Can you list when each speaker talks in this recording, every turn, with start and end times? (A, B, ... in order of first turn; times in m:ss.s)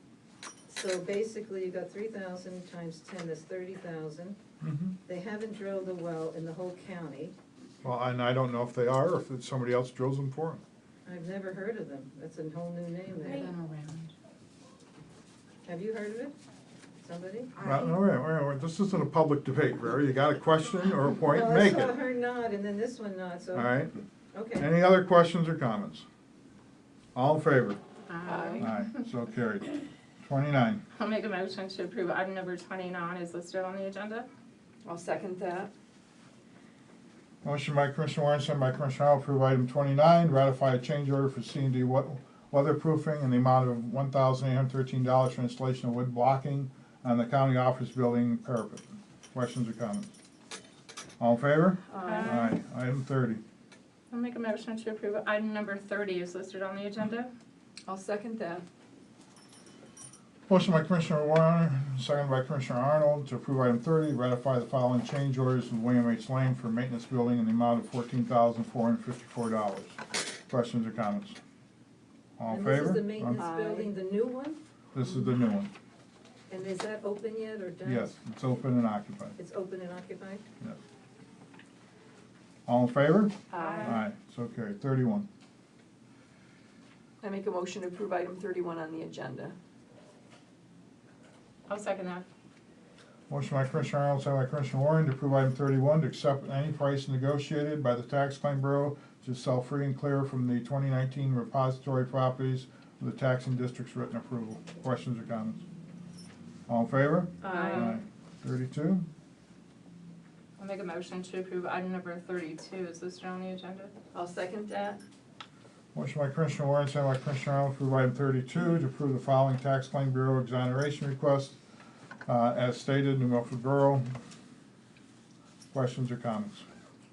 0:00.7-0:04.4 A
0:04.6-0:05.0 B
0:05.0-0:07.3 A
0:07.8-0:10.6 B
0:11.0-0:13.5 A
0:13.2-0:14.1 C
0:15.6-0:16.3 A
0:17.0-0:17.6 A
0:17.6-0:17.9 C
0:17.6-0:21.9 B
0:21.2-0:23.7 A
0:23.5-0:23.9 B
0:24.3-0:24.7 A
0:24.6-0:26.0 B
0:27.1-0:27.8 B
0:28.1-0:28.9 C
0:28.2-0:28.7 D
0:28.6-0:30.8 B
0:30.9-0:34.3 C
0:34.8-0:35.7 D
0:37.4-0:50.1 B
0:51.2-0:53.4 B
0:51.9-0:52.5 D
0:52.0-0:52.5 C
0:54.1-0:57.3 C
0:57.9-0:58.6 D
1:00.5-1:11.4 B
1:12.4-1:13.4 B
1:12.5-1:14.6 A
1:13.3-1:13.9 D
1:14.9-1:15.7 B
1:16.5-1:18.2 A
1:17.8-1:19.4 B
1:19.4-1:20.4 A
1:22.6-1:25.3 B
1:23.5-1:24.0 D
1:23.5-1:24.0 C
1:27.2-1:29.5 D
1:31.7-1:32.2 C
1:33.3-1:45.6 B
1:46.7-1:49.1 B
1:47.4-1:48.0 D
1:47.4-1:48.0 C
1:50.6-1:53.9 C
1:54.1-1:55.0 D
1:55.9-2:01.6 B
2:02.2-2:04.1 B
2:05.7-2:06.6 B